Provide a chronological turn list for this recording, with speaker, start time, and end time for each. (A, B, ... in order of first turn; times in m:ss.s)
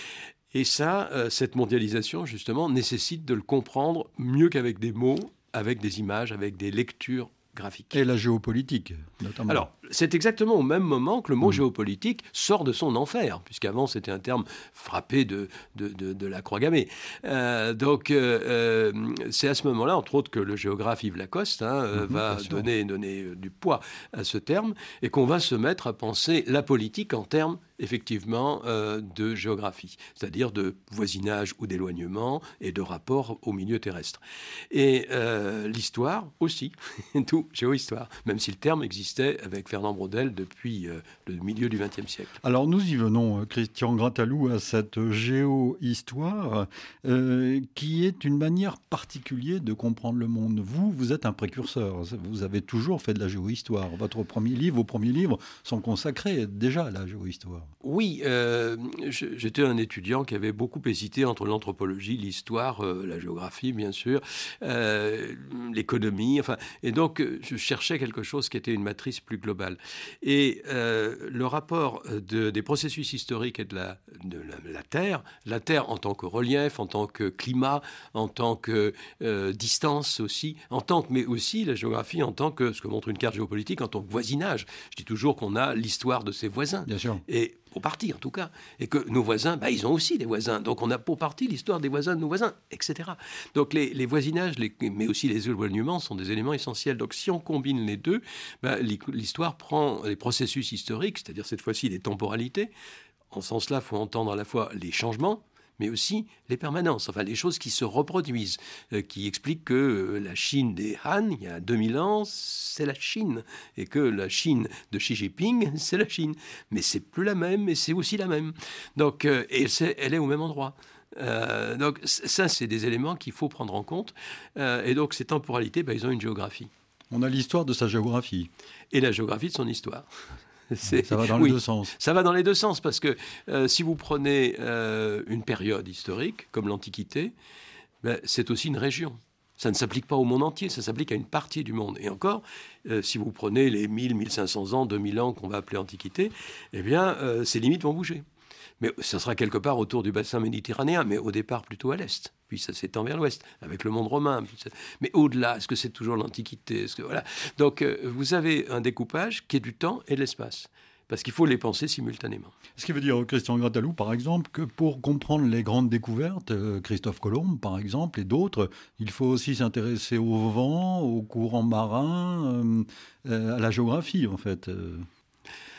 0:00.5-0:08.0 A
0:07.9-0:09.7 B
0:09.5-0:42.4 A
0:21.9-0:22.6 B
0:42.4-0:57.7 B
0:57.8-1:42.7 A
1:26.9-1:27.2 B
1:43.3-2:06.7 A
2:07.1-2:08.5 B
2:08.9-2:10.1 A
2:10.7-2:17.3 A
2:10.9-2:11.9 B
2:18.0-2:28.2 A
2:28.8-2:42.5 A
2:42.8-2:55.1 B